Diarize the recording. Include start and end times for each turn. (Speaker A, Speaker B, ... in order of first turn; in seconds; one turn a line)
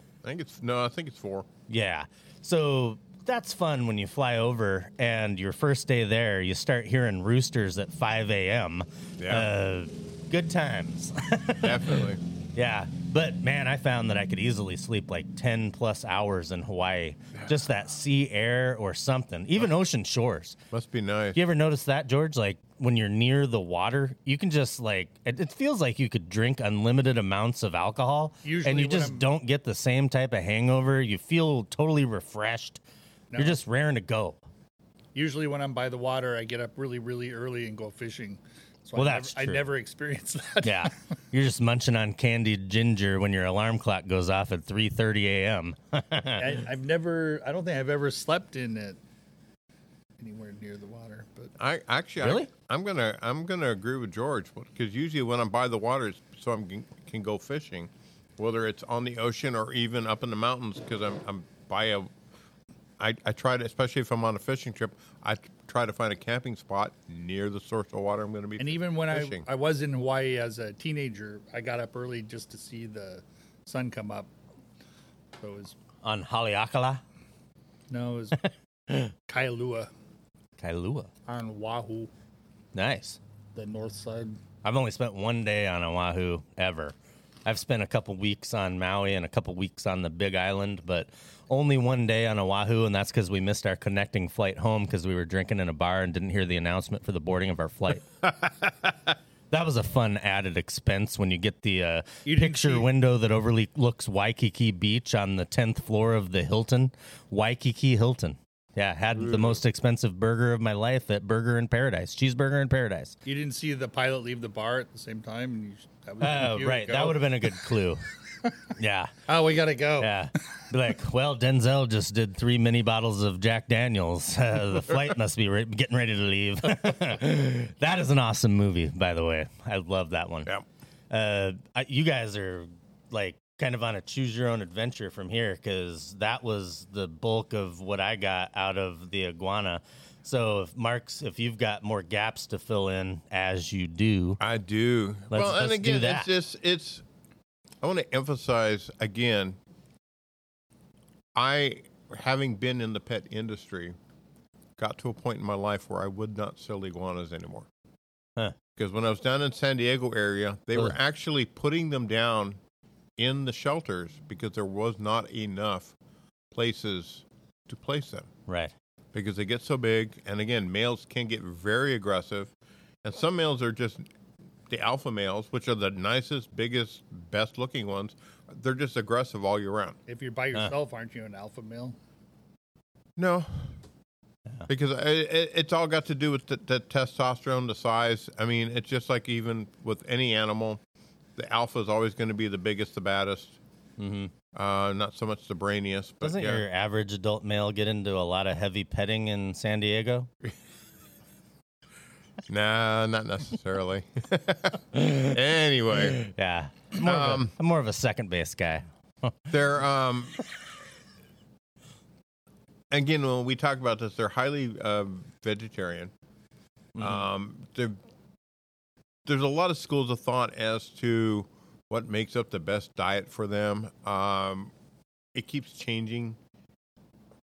Speaker A: 0.2-1.5
Speaker B: 1.7-20.6
Speaker A: 9.2-9.5
Speaker A: 11.6-12.2
Speaker A: 20.7-21.4
Speaker B: 21.4-32.8
Speaker C: 28.4-29.3
Speaker C: 33.3-33.6
Speaker B: 33.4-34.4
Speaker C: 35.1-40.9
Speaker B: 39.0-39.7
Speaker B: 40.6-46.5
Speaker C: 46.4-49.0
Speaker C: 50.2-51.5
Speaker A: 51.6-62.1
Speaker B: 52.2-52.5
Speaker A: 63.0-69.5
Speaker C: 68.6-74.3
Speaker C: 75.4-75.8
Speaker B: 76.0-77.0
Speaker C: 77.9-78.4
Speaker C: 79.3-79.9
Speaker B: 80.6-81.1
Speaker C: 81.3-82.1
Speaker B: 82.7-83.2
Speaker C: 83.5-84.4
Speaker B: 84.6-98.1
Speaker B: 99.5-113.2
Speaker C: 102.2-102.9
Speaker A: 109.1-109.6
Speaker C: 113.2-117.6
Speaker B: 116.2-118.0
Speaker B: 118.8-119.1
Speaker C: 119.3-120.1
Speaker B: 120.0-130.5
Speaker B: 131.1-144.4
Speaker A: 144.4-147.0
Speaker B: 145.3-146.3
Speaker A: 147.8-149.6
Speaker A: 151.3-154.0
Speaker A: 154.8-157.7
Speaker A: 158.8-162.6
Speaker A: 163.2-165.9
Speaker A: 166.5-168.3
Speaker B: 168.5-168.7
Speaker A: 169.1-172.5
Speaker A: 173.0-174.1
Speaker A: 174.7-180.0
Speaker C: 180.1-182.0
Speaker A: 183.2-183.7
Speaker A: 184.7-190.8
Speaker A: 191.4-193.6
Speaker B: 194.0-194.3
Speaker A: 194.5-196.7
Speaker B: 196.2-200.3
Speaker A: 202.5-206.2
Speaker B: 206.2-209.5
Speaker A: 207.0-207.5
Speaker A: 209.5-210.4
Speaker A: 212.9-216.1
Speaker B: 216.9-217.2
Speaker A: 217.0-218.0
Speaker A: 219.2-224.7
Speaker A: 225.3-226.4